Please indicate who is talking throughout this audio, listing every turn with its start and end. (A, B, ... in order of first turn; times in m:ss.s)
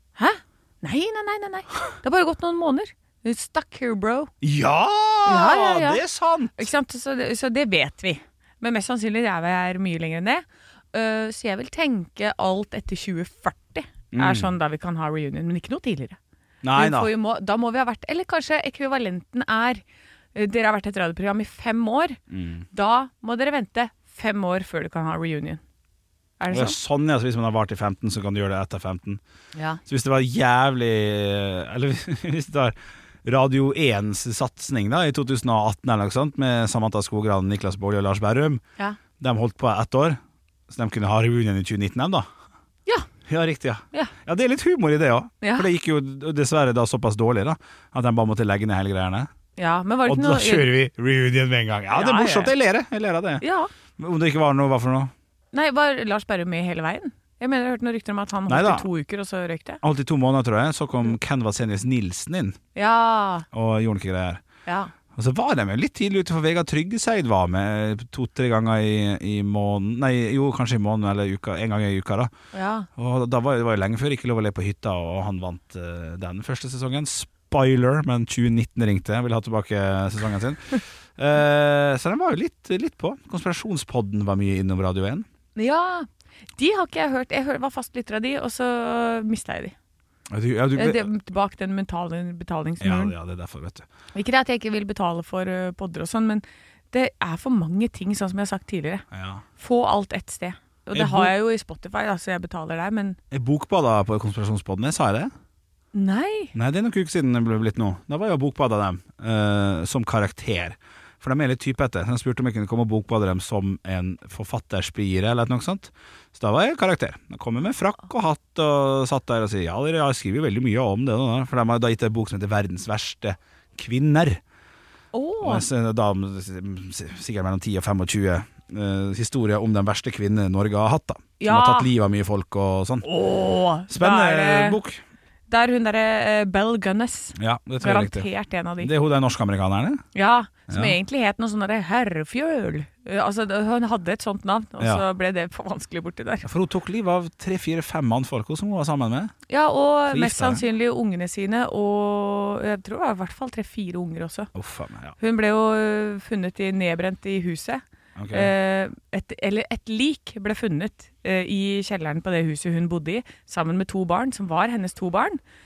0:00.2-0:04.3 A
0:04.4-0:06.7 B
0:05.3-0:06.0 A
0:06.6-0:16.2 A
0:14.1-0:14.5 B
0:16.6-0:17.1 B
0:16.8-0:19.8 A
0:20.4-0:22.2 A
0:22.3-0:22.6 B
0:22.7-0:25.6 A
0:26.4-0:26.8 A
0:26.5-0:29.2 B
0:29.6-0:29.8 A
0:29.9-0:38.6 B
0:39.2-0:42.3 B
0:43.3-0:49.3 B
0:45.4-0:45.7 A
0:49.6-0:50.7 A
0:50.1-0:53.4 B
0:51.9-0:52.5 A
0:53.4-0:53.7 A
0:54.0-0:55.1 B
0:55.5-0:59.8 A
0:58.5-0:58.9 B
0:59.8-1:02.6 B
1:02.8-1:03.5 A
1:03.5-1:04.4 B
1:04.7-1:04.9 A
1:05.1-1:12.3 B
1:12.5-1:12.9 A
1:13.0-1:25.3 B
1:25.6-1:29.7 A
1:30.3-1:31.1 B
1:30.8-1:33.1 A
1:32.8-1:33.9 B
1:34.2-1:39.0 A
1:39.1-1:39.4 B
1:39.6-1:43.2 A
1:40.9-1:41.3 B
1:43.3-1:45.3 B
1:45.9-1:46.5 A
1:46.6-2:04.4 B
2:05.1-2:05.7 A
2:05.4-2:13.1 B
2:11.4-2:11.9 A
2:13.0-2:14.8 A
2:13.9-2:15.0 B
2:15.5-2:18.9 A
2:17.4-2:18.3 B
2:18.8-2:20.0 B
2:20.2-2:26.5 A
2:20.7-2:21.0 B
2:26.4-2:29.3 B
2:29.5-2:34.5 A
2:30.1-2:30.6 B
2:34.6-2:35.2 B
2:35.2-2:45.4 A
2:38.2-2:38.5 B